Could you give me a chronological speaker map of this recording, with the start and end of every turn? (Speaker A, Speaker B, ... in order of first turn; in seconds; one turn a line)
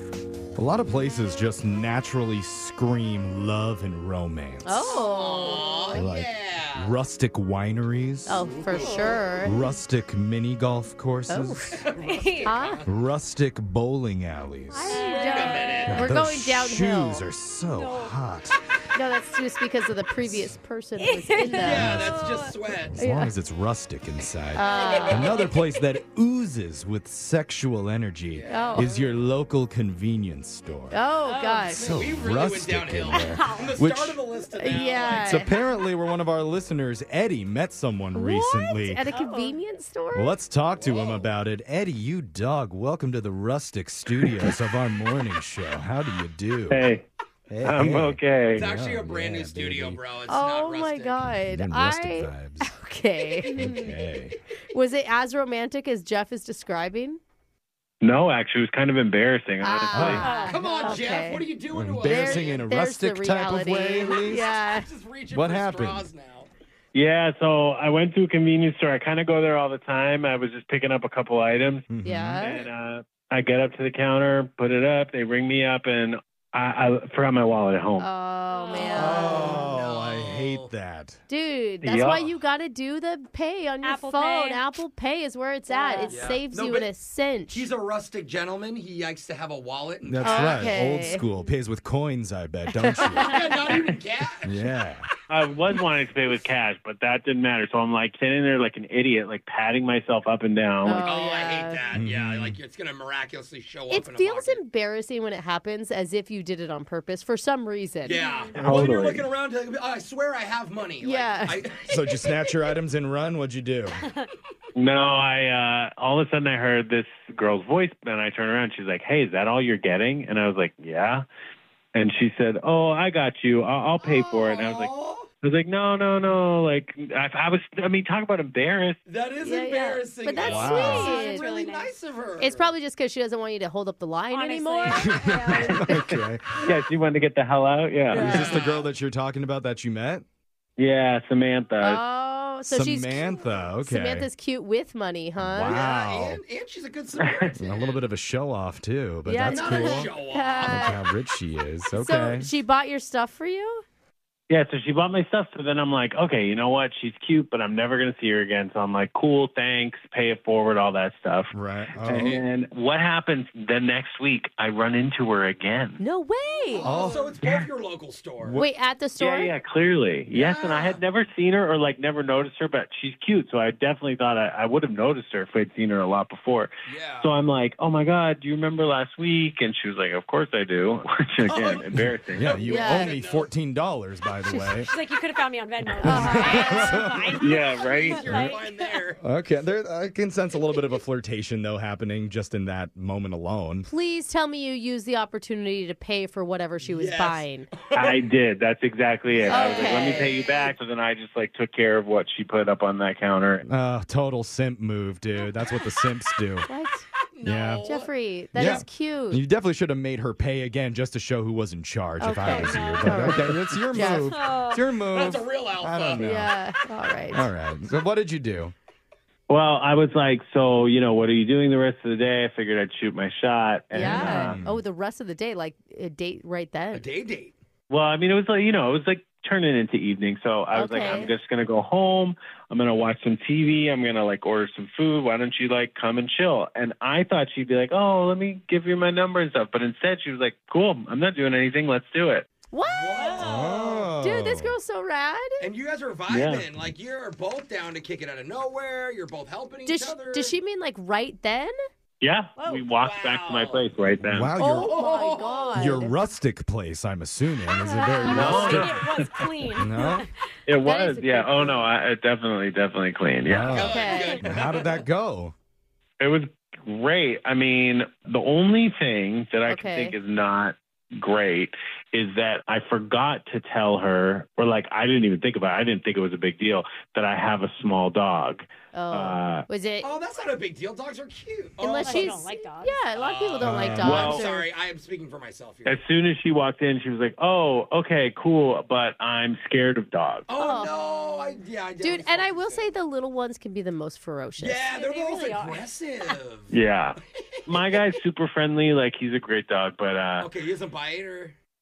Speaker A: 0.6-5.0
Speaker B: 4.7-6.0
Speaker C: 4.9-6.9
Speaker A: 5.9-8.5
Speaker B: 8.3-9.6
Speaker C: 8.6-9.2
Speaker D: 8.7-9.2
Speaker A: 9.4-11.8
Speaker B: 11.3-11.8
Speaker C: 11.7-12.9
Speaker D: 12.0-12.7
Speaker B: 12.4-12.8
Speaker A: 12.8-15.1
Speaker D: 14.7-16.1
Speaker B: 14.9-17.2
Speaker C: 15.2-16.1
Speaker A: 15.8-18.6
Speaker D: 17.7-18.1
Speaker B: 18.9-22.0
Speaker D: 20.9-22.5
Speaker C: 21.5-23.0
Speaker A: 21.6-31.0
Speaker B: 22.9-23.3
Speaker B: 24.5-25.4
Speaker D: 24.6-25.7
Speaker C: 28.3-28.9
Speaker B: 28.5-28.9
Speaker B: 30.9-31.9
Speaker D: 31.2-31.7
Speaker A: 31.7-34.2
Speaker C: 31.7-35.4
Speaker D: 33.1-33.8
Speaker B: 34.5-35.5
Speaker A: 35.2-39.0
Speaker B: 38.1-40.3
Speaker D: 39.1-39.6
Speaker A: 40.1-46.8
Speaker C: 40.7-41.3
Speaker E: 46.7-47.0
Speaker A: 47.5-50.0
Speaker E: 47.6-48.6
Speaker C: 48.5-51.2
Speaker B: 50.3-53.9
Speaker A: 51.3-52.7
Speaker A: 53.5-54.4
Speaker B: 54.7-57.2
Speaker E: 58.0-60.3
Speaker B: 59.6-61.5
Speaker A: 59.9-60.3
Speaker D: 60.2-61.1
Speaker C: 60.3-62.7
Speaker A: 61.7-64.5
Speaker B: 62.0-64.9
Speaker C: 64.1-66.5
Speaker A: 65.3-66.1
Speaker E: 66.9-71.8
Speaker A: 71.9-72.5
Speaker B: 72.0-72.6
Speaker E: 72.4-78.1
Speaker B: 78.0-79.6
Speaker D: 78.5-79.3
Speaker A: 78.8-81.2
Speaker C: 78.9-80.7
Speaker B: 81.3-87.7
Speaker E: 81.8-82.3
Speaker D: 83.8-84.6
Speaker D: 85.7-86.4
Speaker C: 86.1-86.9
Speaker C: 87.5-90.8
Speaker A: 90.0-93.4
Speaker B: 90.2-91.2
Speaker D: 91.2-91.5
Speaker B: 92.8-93.6
Speaker C: 93.0-94.5
Speaker A: 94.4-95.1
Speaker E: 95.3-101.2
Speaker B: 100.8-101.9
Speaker C: 101.0-104.6
Speaker A: 101.9-102.6
Speaker B: 103.9-108.2
Speaker C: 108.0-112.6
Speaker D: 108.1-108.5
Speaker E: 108.5-109.2
Speaker A: 108.5-109.1
Speaker B: 111.0-111.6
Speaker A: 111.9-114.0
Speaker E: 114.7-121.2
Speaker E: 121.9-129.0
Speaker C: 124.0-125.3
Speaker C: 129.1-132.7
Speaker B: 129.4-131.5
Speaker A: 130.4-131.2
Speaker D: 130.9-131.9
Speaker B: 132.4-135.8
Speaker D: 134.3-135.9
Speaker A: 134.9-136.7
Speaker E: 136.6-138.6
Speaker A: 138.1-140.2
Speaker B: 138.1-138.6
Speaker C: 138.1-138.9
Speaker E: 140.8-142.0
Speaker B: 141.8-145.8
Speaker A: 142.6-144.3
Speaker A: 145.4-146.4
Speaker C: 145.6-148.0
Speaker E: 147.2-147.5
Speaker A: 147.5-150.1
Speaker B: 149.2-151.0
Speaker C: 149.4-150.9
Speaker A: 150.7-152.5
Speaker B: 151.9-153.8
Speaker E: 154.5-166.0
Speaker A: 161.5-162.4
Speaker C: 162.0-162.4
Speaker B: 166.0-167.2
Speaker C: 166.7-168.6
Speaker A: 166.8-167.7
Speaker A: 168.4-168.7
Speaker B: 168.6-169.5
Speaker E: 169.2-182.6
Speaker C: 170.3-171.0
Speaker C: 176.9-177.3
Speaker C: 181.4-183.5
Speaker A: 182.3-184.9
Speaker B: 182.7-183.1
Speaker B: 184.5-184.7
Speaker D: 184.7-189.0
Speaker A: 186.0-187.4
Speaker B: 186.0-187.1
Speaker E: 187.4-188.2
Speaker C: 187.7-189.2
Speaker A: 188.3-188.6
Speaker A: 189.2-193.9
Speaker B: 193.8-197.7
Speaker C: 196.8-198.3
Speaker E: 197.9-203.7
Speaker C: 199.3-200.7
Speaker B: 199.5-200.3
Speaker A: 203.7-206.7
Speaker B: 206.7-207.1
Speaker C: 207.3-208.8
Speaker A: 207.4-207.8
Speaker B: 207.8-209.4
Speaker A: 208.5-216.5
Speaker B: 212.2-214.3
Speaker D: 212.4-213.4
Speaker D: 214.1-214.9
Speaker C: 215.1-216.3
Speaker B: 216.2-217.5
Speaker A: 217.3-218.7
Speaker E: 219.5-224.6
Speaker A: 223.9-224.8
Speaker B: 223.9-227.0
Speaker C: 226.9-227.6
Speaker E: 227.9-242.5
Speaker B: 230.7-231.3
Speaker B: 242.7-243.5
Speaker C: 242.8-244.1
Speaker D: 243.1-243.8
Speaker A: 243.4-244.8
Speaker B: 244.2-245.6
Speaker C: 245.6-250.6
Speaker E: 246.3-246.7
Speaker B: 249.8-251.7
Speaker E: 252.2-254.5
Speaker D: 252.6-253.0
Speaker C: 253.0-253.9
Speaker A: 254.2-254.9
Speaker B: 254.6-256.2
Speaker C: 254.8-255.9
Speaker A: 255.7-259.1
Speaker B: 257.8-258.5
Speaker D: 258.2-260.3
Speaker E: 258.2-259.5
Speaker A: 259.7-260.3
Speaker E: 260.7-263.9
Speaker B: 260.8-261.9
Speaker A: 263.5-265.5
Speaker C: 263.5-265.0
Speaker B: 263.7-264.4
Speaker E: 266.2-279.6
Speaker B: 269.6-270.1
Speaker B: 278.9-280.1
Speaker C: 280.0-282.4
Speaker B: 281.8-284.7
Speaker D: 281.9-283.1
Speaker C: 283.1-286.0
Speaker A: 283.6-284.1
Speaker E: 284.0-284.4
Speaker E: 285.9-290.5
Speaker C: 290.5-292.9
Speaker B: 290.6-290.9
Speaker B: 292.0-294.9
Speaker C: 294.6-298.0
Speaker D: 294.9-295.8
Speaker E: 296.7-300.5
Speaker C: 300.4-301.6